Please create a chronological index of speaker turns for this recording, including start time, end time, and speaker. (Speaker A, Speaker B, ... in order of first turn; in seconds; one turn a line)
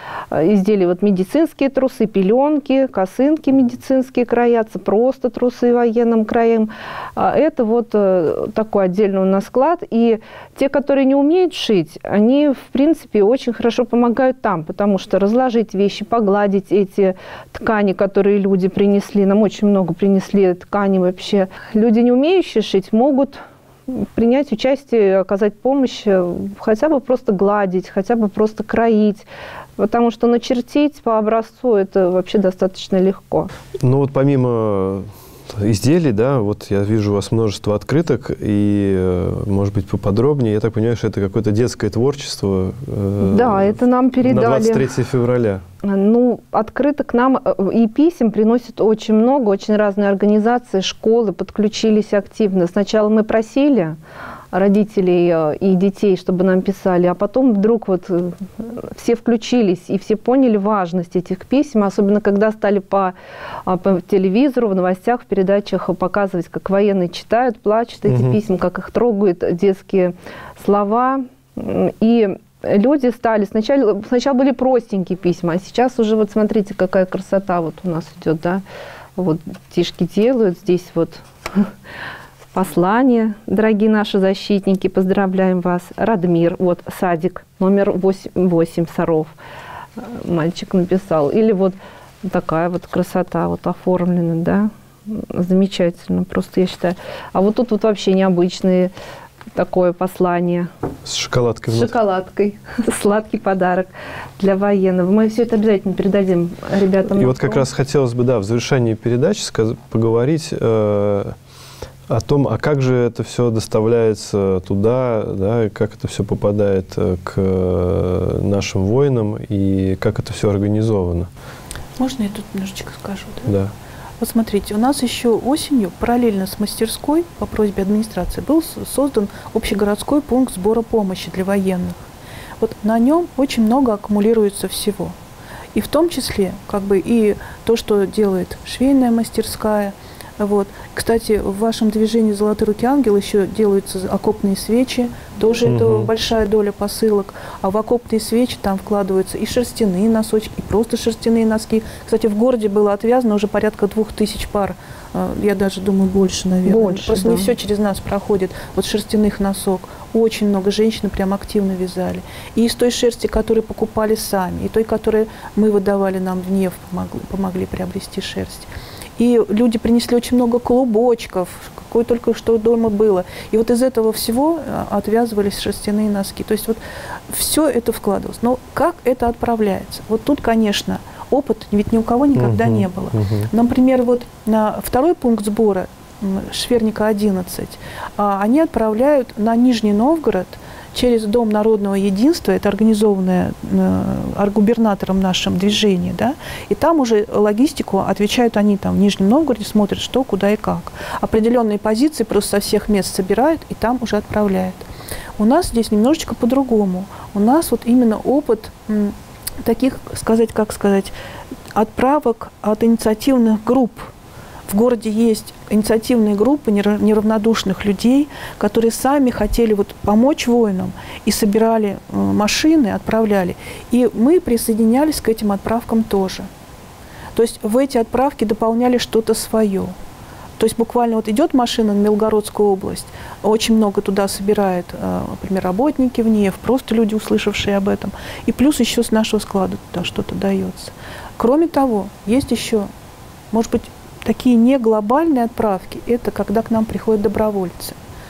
Speaker A: 0.3-29.2
Speaker A: 29.8-33.5
Speaker B: 33.8-45.6
Speaker A: 43.2-44.9
Speaker A: 45.8-54.0
Speaker A: 54.5-63.1
Speaker A: 63.6-78.6
Speaker B: 68.1-68.4
Speaker A: 79.2-81.7
Speaker A: 82.5-89.3
Speaker A: 90.0-98.9
Speaker A: 99.5-100.7
Speaker B: 101.0-101.9
Speaker A: 101.7-107.7
Speaker B: 107.1-111.3
Speaker B: 112.1-121.3
Speaker C: 122.0-123.5
Speaker B: 123.5-123.7
Speaker C: 124.2-132.1
Speaker C: 132.6-135.2
Speaker C: 135.7-204.8
Speaker B: 145.6-146.1
Speaker A: 156.7-157.5
Speaker B: 182.3-183.5
Speaker C: 205.4-211.1
Speaker C: 211.7-214.1
Speaker C: 214.7-226.5
Speaker C: 227.3-229.9
Speaker C: 230.6-242.9
Speaker C: 243.5-248.0